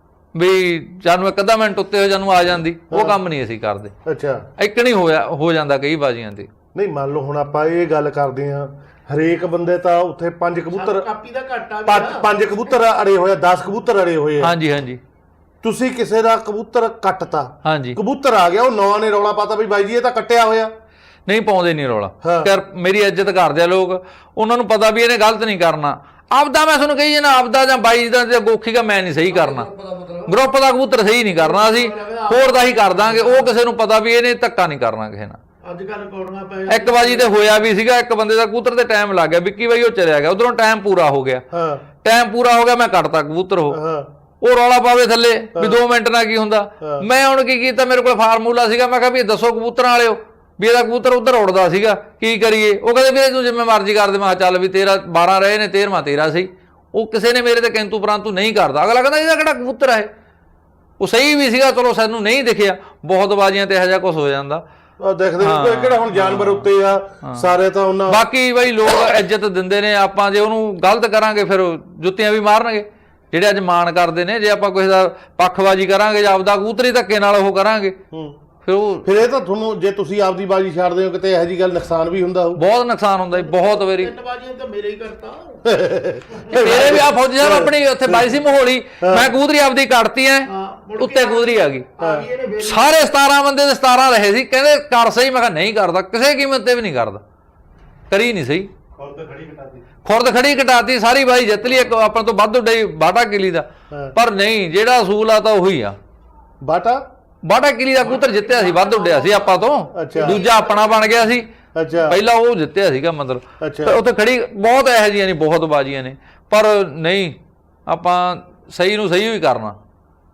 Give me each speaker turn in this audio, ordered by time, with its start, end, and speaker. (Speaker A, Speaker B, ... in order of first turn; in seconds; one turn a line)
Speaker A: 0.3-3.9
Speaker B: 2.9-3.1
Speaker B: 4.0-4.5
Speaker A: 4.6-6.5
Speaker B: 6.7-11.1
Speaker C: 10.7-12.3
Speaker B: 11.8-14.5
Speaker A: 14.4-15.0
Speaker B: 15.6-20.7
Speaker A: 17.6-18.0
Speaker A: 21.3-29.7
Speaker B: 22.2-22.5
Speaker C: 29.4-30.3
Speaker A: 30.2-35.4
Speaker C: 31.4-33.5
Speaker C: 35.6-37.5
Speaker A: 36.7-41.4
Speaker B: 41.5-41.8
Speaker A: 42.0-43.8
Speaker B: 43.7-44.1
Speaker A: 44.4-60.1
Speaker B: 45.5-45.8
Speaker A: 61.0-64.6
Speaker B: 65.0-68.2
Speaker A: 65.4-66.7
Speaker A: 67.2-67.5
Speaker A: 68.1-78.0
Speaker B: 78.1-78.4
Speaker A: 78.6-79.1
Speaker B: 79.0-82.6
Speaker A: 82.5-84.1
Speaker C: 83.4-85.7
Speaker B: 85.7-88.2
Speaker A: 86.5-91.9
Speaker B: 89.0-89.3
Speaker C: 90.5-93.1
Speaker B: 92.0-92.2
Speaker A: 92.6-97.2
Speaker A: 98.1-98.7
Speaker A: 100.0-106.0
Speaker B: 106.6-107.0
Speaker A: 107.4-119.8
Speaker C: 108.2-111.2
Speaker B: 109.9-110.4
Speaker B: 111.7-112.2
Speaker B: 113.6-114.0